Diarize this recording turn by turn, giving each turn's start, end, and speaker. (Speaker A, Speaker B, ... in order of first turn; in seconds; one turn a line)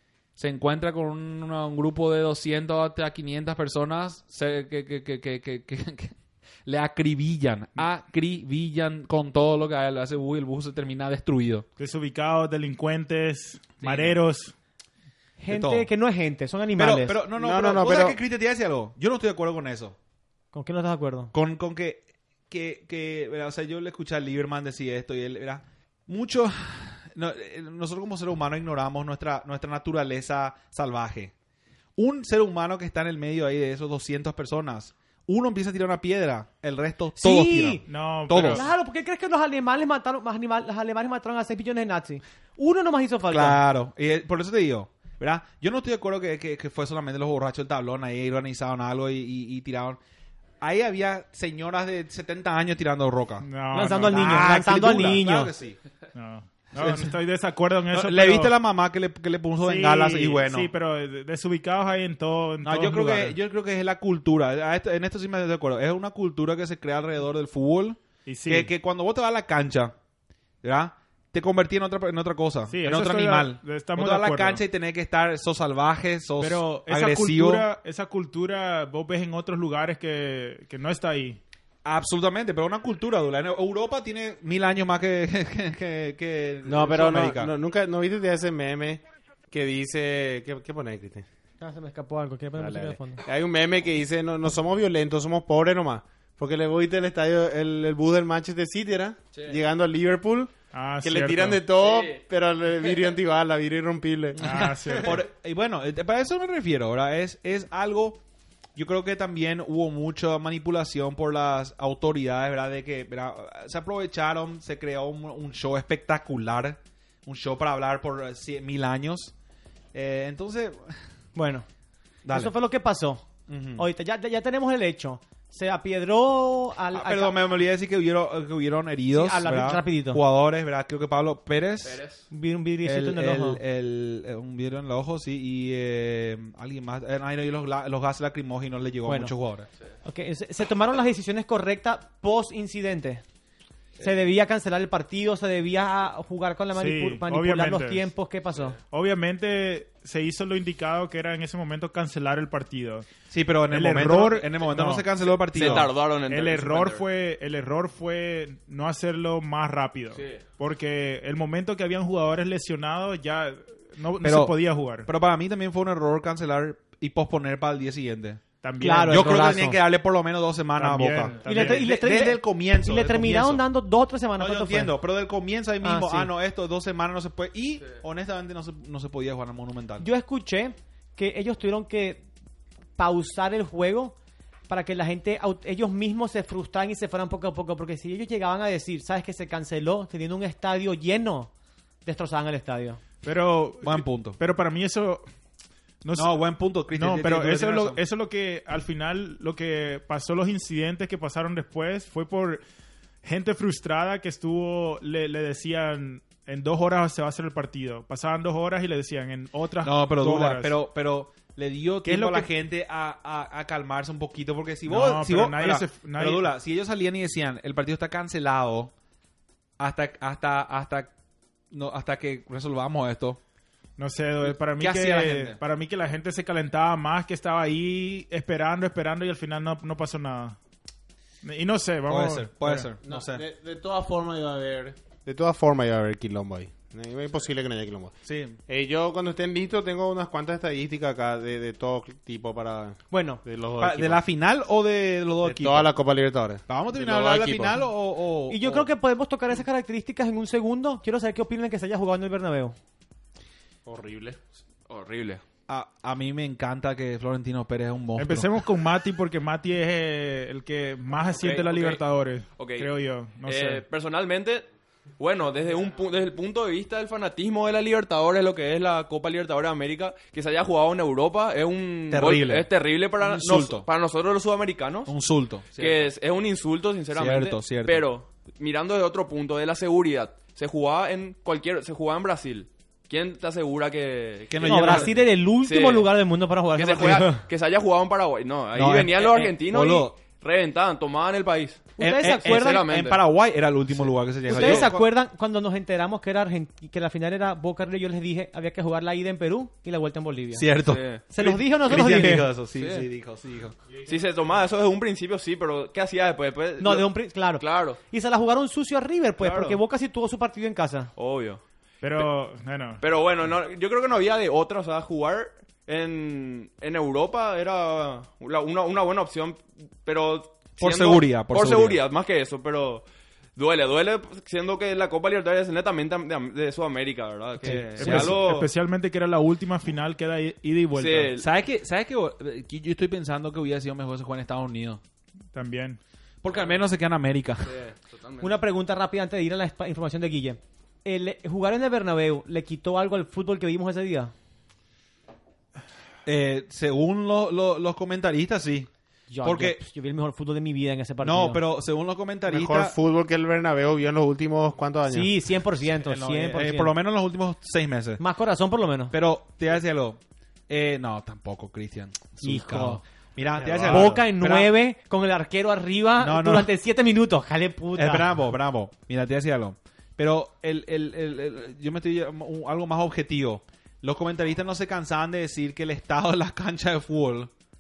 Speaker A: 0.4-11.7
Speaker B: 11.8-14.5
Speaker A: 13.8-14.2
Speaker C: 15.4-17.2
Speaker A: 15.5-15.9
Speaker A: 16.8-20.0
Speaker D: 17.4-18.2
Speaker C: 20.5-21.3
Speaker A: 21.3-31.3
Speaker A: 32.0-38.6
Speaker C: 37.2-37.8
Speaker B: 37.9-38.6
Speaker C: 38.4-43.6
Speaker A: 43.3-50.0
Speaker A: 50.6-53.5
Speaker B: 53.4-54.6
Speaker C: 53.7-55.5
Speaker A: 54.1-55.8
Speaker B: 56.1-58.6
Speaker A: 56.8-57.1
Speaker A: 57.9-60.7
Speaker B: 59.6-63.4
Speaker A: 62.6-70.0
Speaker B: 68.2-68.7
Speaker A: 70.6-77.7
Speaker B: 72.7-74.6
Speaker B: 76.4-81.4
Speaker A: 81.8-87.5
Speaker D: 86.7-91.2
Speaker C: 91.6-93.2
Speaker D: 92.6-105.1
Speaker B: 100.7-101.6
Speaker E: 101.8-102.2
Speaker B: 104.4-105.2
Speaker A: 104.5-108.2
Speaker A: 108.8-119.3
Speaker A: 119.9-121.1
Speaker C: 121.3-121.7
Speaker A: 122.2-122.5
Speaker C: 122.3-127.4
Speaker A: 123.5-123.9
Speaker A: 126.9-132.0
Speaker C: 129.1-130.2
Speaker E: 131.8-132.2
Speaker C: 132.3-133.6
Speaker A: 132.8-139.7
Speaker C: 139.1-139.3
Speaker C: 140.1-143.2
Speaker C: 144.0-148.8
Speaker B: 146.8-148.1
Speaker B: 148.9-153.1
Speaker A: 153.3-155.9
Speaker B: 153.7-165.1
Speaker E: 155.5-157.1
Speaker A: 164.2-168.4
Speaker B: 168.6-169.5
Speaker C: 168.8-169.8
Speaker A: 169.1-173.6
Speaker B: 170.8-171.9
Speaker C: 171.4-175.0
Speaker A: 174.4-180.1
Speaker C: 175.8-176.3
Speaker C: 180.0-182.2
Speaker C: 183.0-184.2
Speaker C: 184.7-191.5
Speaker C: 192.0-193.0
Speaker B: 193.2-195.3
Speaker A: 193.8-194.4
Speaker B: 196.0-202.6
Speaker A: 196.2-198.0
Speaker B: 203.2-210.7
Speaker A: 209.8-218.9
Speaker B: 212.1-212.5
Speaker B: 214.9-216.5
Speaker A: 219.8-221.1
Speaker A: 221.7-223.4
Speaker B: 224.0-230.6
Speaker A: 224.4-225.6
Speaker B: 231.4-232.9
Speaker A: 232.1-233.4
Speaker D: 233.0-238.2
Speaker A: 238.2-238.6
Speaker D: 238.7-244.2
Speaker C: 243.1-243.4
Speaker A: 243.8-245.9
Speaker D: 245.4-247.8
Speaker A: 246.7-248.9
Speaker C: 248.5-252.8
Speaker D: 253.9-254.4
Speaker E: 254.9-255.4
Speaker A: 255.7-258.5
Speaker B: 258.2-263.9
Speaker E: 261.4-262.0
Speaker E: 262.6-262.9
Speaker E: 263.4-264.7
Speaker E: 265.2-275.1
Speaker A: 272.1-273.9
Speaker A: 275.1-276.1
Speaker E: 275.8-286.1
Speaker A: 277.1-278.1
Speaker A: 284.5-285.2
Speaker C: 284.6-287.5
Speaker E: 286.8-293.2
Speaker A: 288.7-290.1
Speaker C: 292.0-292.9
Speaker A: 292.0-295.1
Speaker C: 294.5-300.7
Speaker E: 294.6-294.9
Speaker A: 300.5-303.8
Speaker E: 300.8-301.2
Speaker C: 301.3-302.5
Speaker E: 302.8-303.1
Speaker E: 304.0-308.0
Speaker C: 306.8-311.1
Speaker E: 309.4-309.8
Speaker E: 311.2-311.6
Speaker B: 312.0-313.0
Speaker E: 313.0-328.7
Speaker A: 320.8-322.0
Speaker A: 327.6-328.4
Speaker B: 327.9-331.3
Speaker E: 330.9-331.5
Speaker A: 331.4-335.0
Speaker B: 335.5-336.0
Speaker A: 336.4-337.8
Speaker E: 337.6-338.6
Speaker C: 338.4-344.3
Speaker A: 346.2-348.9
Speaker C: 349.3-351.6
Speaker A: 349.4-349.8
Speaker A: 351.2-352.9
Speaker D: 352.5-355.3
Speaker C: 355.1-356.9
Speaker A: 356.0-358.2
Speaker C: 358.2-359.1
Speaker A: 359.1-364.7
Speaker C: 362.4-363.0
Speaker D: 363.4-364.2
Speaker C: 363.8-368.3
Speaker A: 366.2-366.7
Speaker A: 367.9-377.5